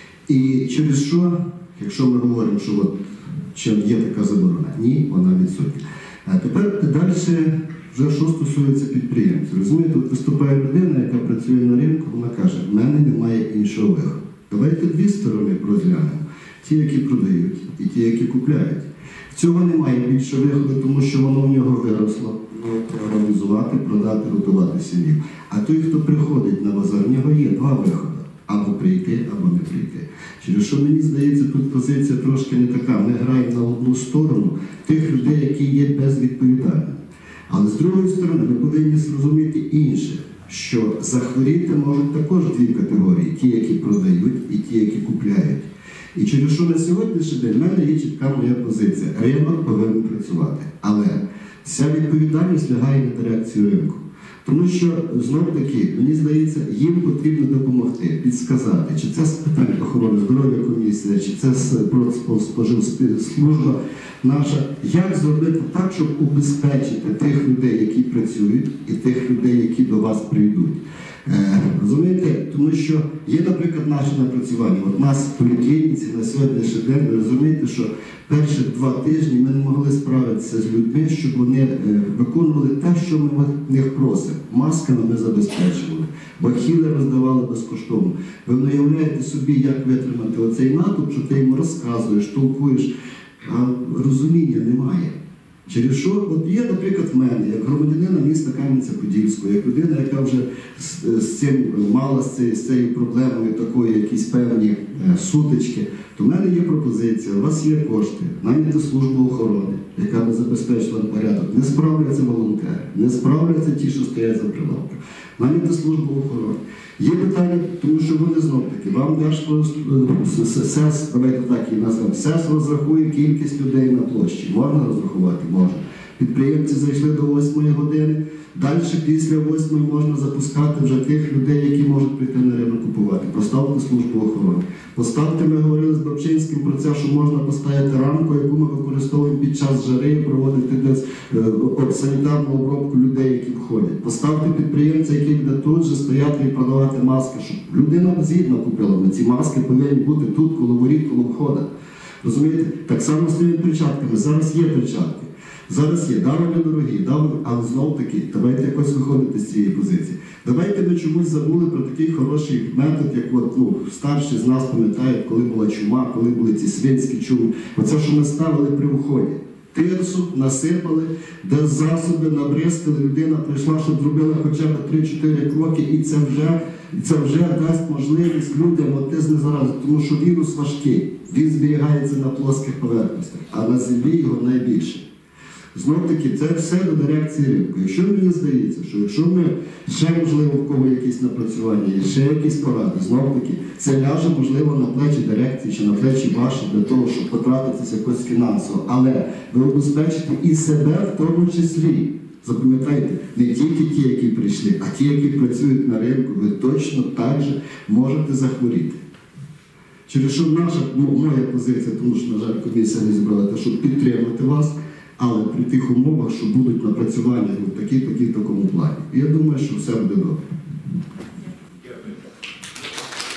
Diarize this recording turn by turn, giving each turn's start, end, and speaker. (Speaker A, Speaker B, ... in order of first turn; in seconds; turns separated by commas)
Speaker A: 0.3-151.7, Speaker A: 152.2-185.1, Speaker A: 185.7-209.0, Speaker A: 210.1-220.4